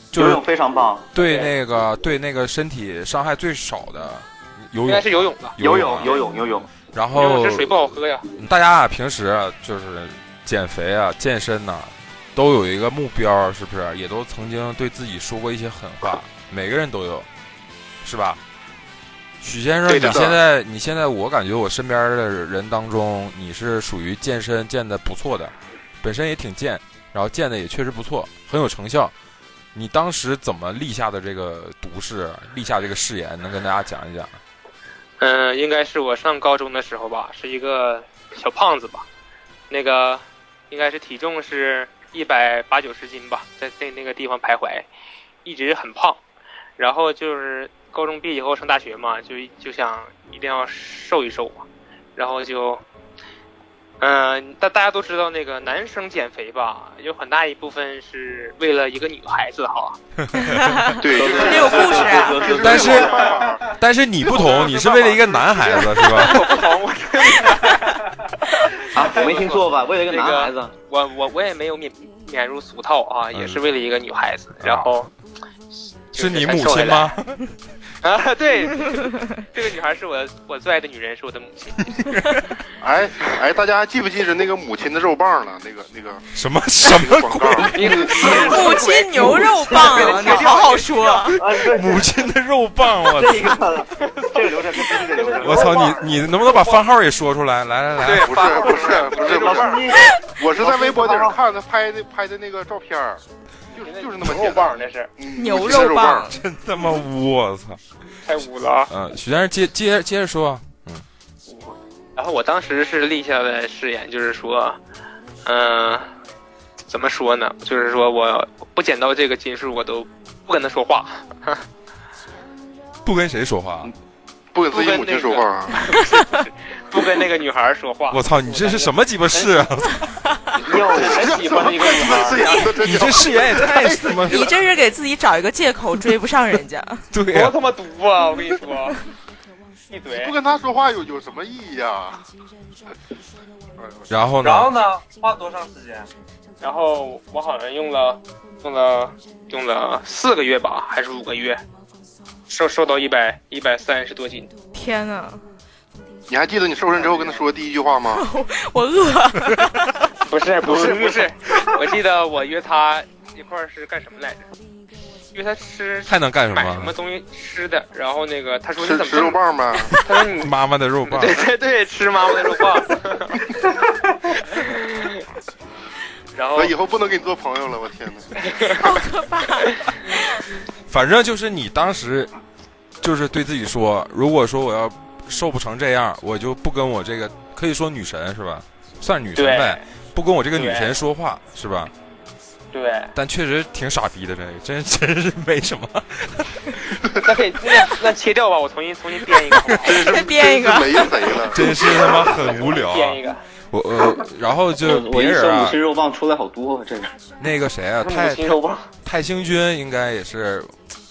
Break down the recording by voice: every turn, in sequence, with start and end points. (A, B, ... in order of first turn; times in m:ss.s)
0:00.1-0:00.4 A
0:00.1-0:01.1 B
0:01.1-0:06.1 A
0:01.2-0:01.5 C
0:04.8-0:05.6 C
0:05.6-0:06.7 B
0:06.8-0:17.3 A
0:07.1-0:08.3 C
0:18.0-0:18.4 A
0:19.4-0:29.1 A
0:19.9-0:20.3 C
0:19.9-0:20.3 D
0:29.7-0:34.4 A
0:35.2-0:39.0 C
0:39.7-0:44.9 C
0:45.4-0:46.2 C
0:46.8-0:52.8 C
0:54.0-1:00.0 C
1:00.2-1:01.0 A
1:00.4-1:02.6 E
1:01.0-1:03.8 D
1:01.1-1:03.3 B
1:02.6-1:06.6 A
1:03.0-1:03.3 C
1:04.3-1:06.6 D
1:06.0-1:08.0 C
1:08.8-1:15.1 C
1:08.9-1:10.7 B
1:13.3-1:13.6 A
1:14.6-1:14.9 A
1:16.1-1:17.1 C
1:16.1-1:17.5 A
1:18.0-1:21.9 C
1:21.8-1:22.5 A
1:22.8-1:26.3 D
1:26.3-1:28.0 A
1:26.8-1:28.7 D
1:27.7-1:31.3 C
1:28.0-1:31.4 E
1:29.1-1:30.6 B
1:31.3-1:32.1 B
1:31.6-1:33.6 A
1:33.0-1:35.9 B
1:34.0-1:34.4 C
1:34.9-1:36.8 C
1:35.2-1:36.1 F
1:35.4-1:38.4 A
1:38.0-1:39.9 C
1:38.2-1:46.3 D
1:38.8-1:41.4 B
1:43.8-1:45.1 C
1:45.4-1:46.3 E
1:46.3-1:47.8 A
1:48.2-1:48.9 C
1:48.9-1:51.0 A
1:52.2-1:54.8 C
1:55.4-1:56.1 C
1:56.9-2:01.6 C
2:03.0-2:03.9 A
2:04.5-2:05.8 D
2:04.7-2:09.7 C
2:06.0-2:06.4 E
2:08.1-2:10.1 A
2:10.6-2:12.2 B
2:10.8-2:12.4 C
2:10.9-2:14.4 D
2:12.4-2:12.8 E
2:12.8-2:14.5 A
2:14.2-2:17.1 E
2:17.1-2:17.6 A
2:17.3-2:19.0 C
2:19.9-2:20.3 C
2:20.1-2:22.2 D
2:23.8-2:24.1 D
2:24.1-2:24.7 A
2:24.4-2:26.1 F
2:26.6-2:31.6 C
2:32.5-2:34.5 C
2:34.7-2:35.4 E
2:36.3-2:38.2 D
2:38.1-2:39.9 E
2:40.2-2:44.4 C
2:40.6-2:41.3 B
2:45.3-2:49.4 C
2:46.1-2:46.9 A
2:48.8-2:50.0 D
2:49.9-2:50.5 C
2:50.4-2:51.4 A
2:51.0-2:53.4 C
2:54.5-2:55.2 C
2:56.3-2:56.7 C
2:56.6-2:58.4 D
2:58.4-2:59.0 C
2:58.8-2:59.9 E
3:00.9-3:02.3 A
3:03.0-3:11.9 A
3:09.4-3:09.8 C
3:10.5-3:10.9 C
3:12.7-3:13.1 C
3:13.1-3:17.1 A
3:17.1-3:20.0 C
3:19.5-3:19.8 A
3:19.8-3:22.5 D
3:19.9-3:21.4 E
3:21.5-3:25.8 A
3:22.5-3:23.4 C
3:24.8-3:27.2 B
3:27.4-3:30.8 A
3:28.0-3:28.9 C